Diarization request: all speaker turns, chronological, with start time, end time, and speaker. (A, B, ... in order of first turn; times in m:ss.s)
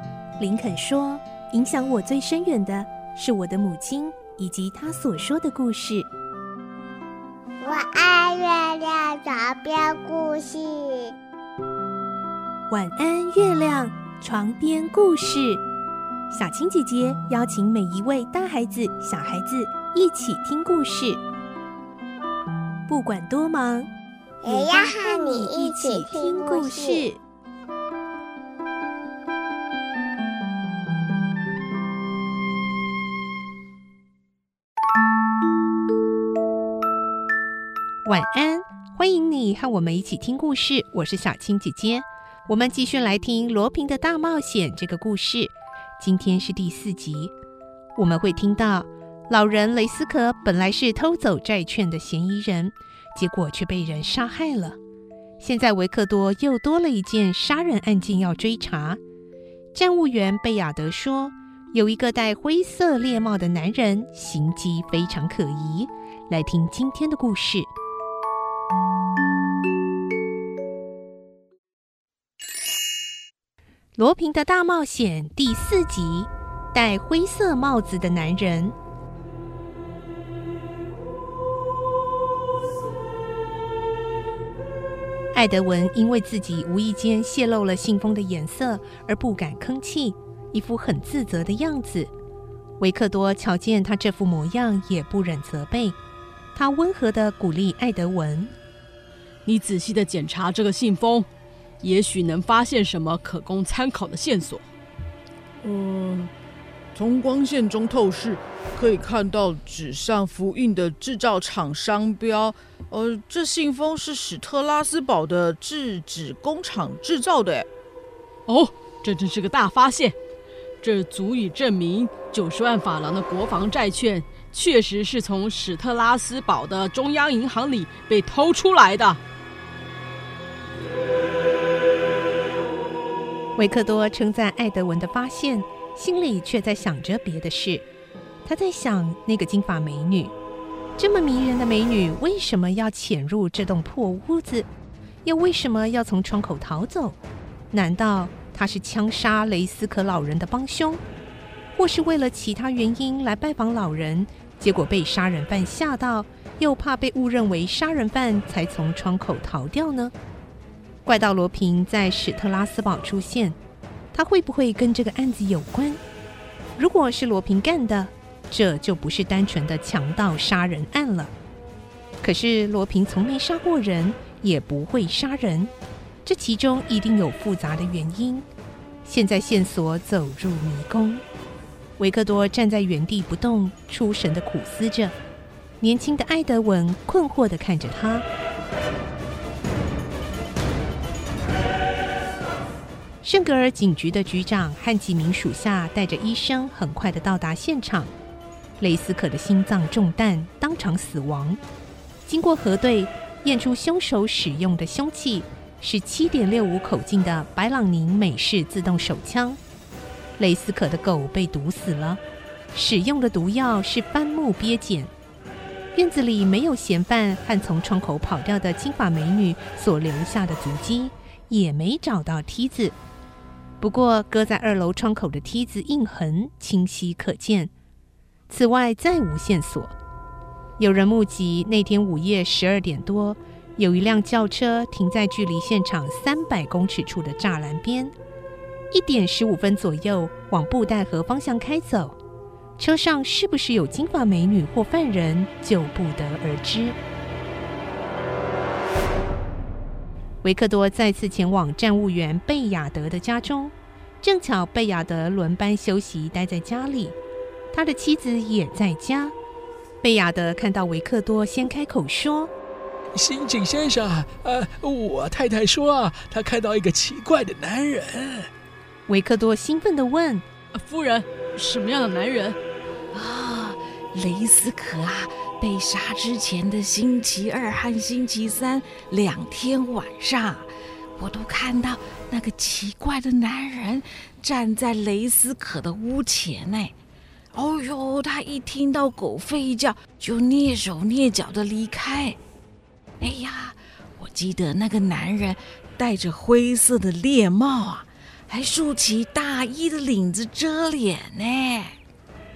0:00.4-0:06.1 A
0:07.6-0:11.2 B
0:12.7-0:15.6 A
0:16.3-0:21.2 A
0:22.9-0:23.9 A
0:24.4-0:27.0 B
0:24.5-0:27.2 A
0:38.0-0:47.3 A
0:48.0-0:54.8 A
0:55.4-0:59.0 A
0:59.7-1:07.7 A
1:14.0-1:18.8 A
1:25.3-1:32.1 A
1:32.8-1:36.0 A
1:36.6-1:38.5 A
1:39.5-1:41.3 C
1:41.8-1:44.6 C
1:45.6-1:46.3 D
1:47.0-1:57.7 D
1:58.5-2:00.2 C
2:00.8-2:09.2 C
2:13.6-2:17.9 A
2:18.4-2:20.3 A
2:21.0-2:24.7 A
2:25.2-2:27.2 A
2:27.7-2:31.0 A
2:31.7-2:40.1 A
2:41.0-2:43.6 A
2:44.1-2:46.0 A
2:46.8-2:51.3 A
2:52.2-2:55.7 A
2:56.2-2:58.5 A
2:59.0-3:01.2 A
3:02.0-3:05.2 A
3:05.8-3:08.2 A
3:13.2-3:18.1 A
3:18.8-3:21.6 A
3:22.3-3:29.6 A
3:30.4-3:32.2 A
3:32.7-3:35.1 A
3:36.0-3:43.0 A
3:43.8-3:47.7 A
3:48.5-3:50.0 A
3:50.8-3:58.1 A
3:58.9-4:02.2 A
4:02.8-4:07.0 A
4:10.4-4:17.2 A
4:17.7-4:19.4 A
4:20.0-4:22.5 A
4:23.1-4:28.5 E
4:29.1-4:30.4 A
4:30.8-4:32.6 C
4:33.1-4:46.9 F
4:47.6-4:52.4 F
4:53.2-5:02.0 F